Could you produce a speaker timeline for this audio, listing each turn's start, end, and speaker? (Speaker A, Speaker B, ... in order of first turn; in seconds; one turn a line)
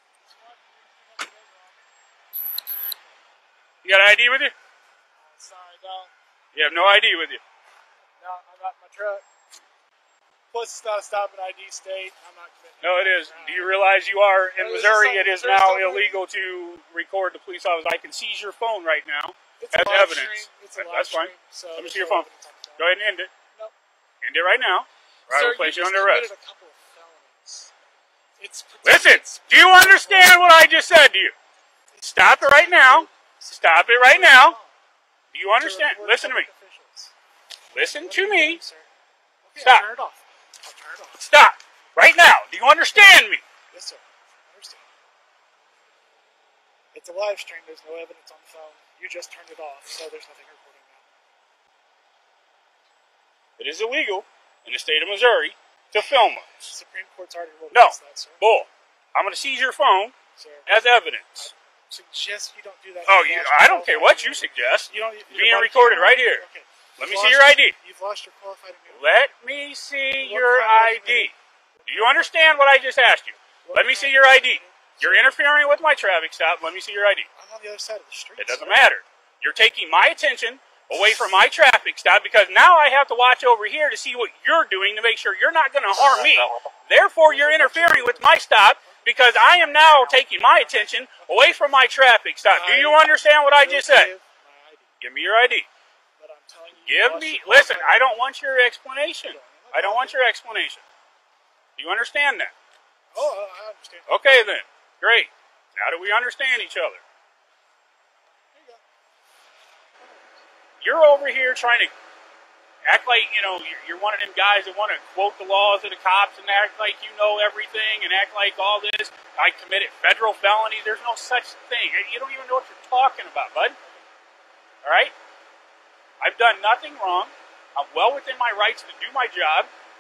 Speaker A: 0.2-1.8
Speaker B: 3.8-4.5
Speaker A: 5.2-6.1
Speaker B: 6.5-7.4
Speaker A: 8.2-9.2
Speaker A: 10.5-13.8
Speaker B: 12.8-23.3
Speaker A: 14.6-16.2
Speaker A: 19.6-22.9
Speaker B: 24.2-26.3
Speaker A: 25.3-27.7
Speaker A: 28.4-30.6
Speaker B: 28.8-31.3
Speaker A: 31.9-34.8
Speaker B: 32.0-34.5
Speaker B: 35.3-36.5
Speaker A: 35.6-37.1
Speaker B: 37.7-38.6
Speaker A: 37.8-38.9
Speaker A: 39.5-41.3
Speaker B: 39.6-39.8
Speaker B: 41.2-43.4
Speaker A: 43.7-44.9
Speaker A: 46.9-51.1
Speaker B: 53.6-56.7
Speaker A: 56.7-58.5
Speaker B: 57.7-60.1
Speaker A: 60.3-60.7
Speaker B: 60.7-61.5
Speaker A: 61.4-69.1
Speaker B: 63.0-66.4
Speaker B: 67.0-67.7
Speaker B: 68.9-71.3
Speaker A: 70.2-72.6
Speaker B: 71.9-77.3
Speaker A: 73.6-75.3
Speaker A: 77.3-78.8
Speaker B: 78.4-94.1
Speaker A: 87.2-91.4
Speaker A: 92.5-94.9
Speaker B: 95.0-95.7
Speaker A: 96.2-98.2
Speaker B: 96.9-100.8
Speaker A: 99.3-100.2
Speaker B: 101.8-102.5
Speaker A: 103.1-104.4
Speaker B: 104.1-107.0
Speaker A: 108.5-108.8
Speaker A: 110.0-110.4
Speaker B: 110.8-111.9
Speaker B: 112.8-123.8
Speaker B: 124.8-125.1
Speaker B: 126.2-129.7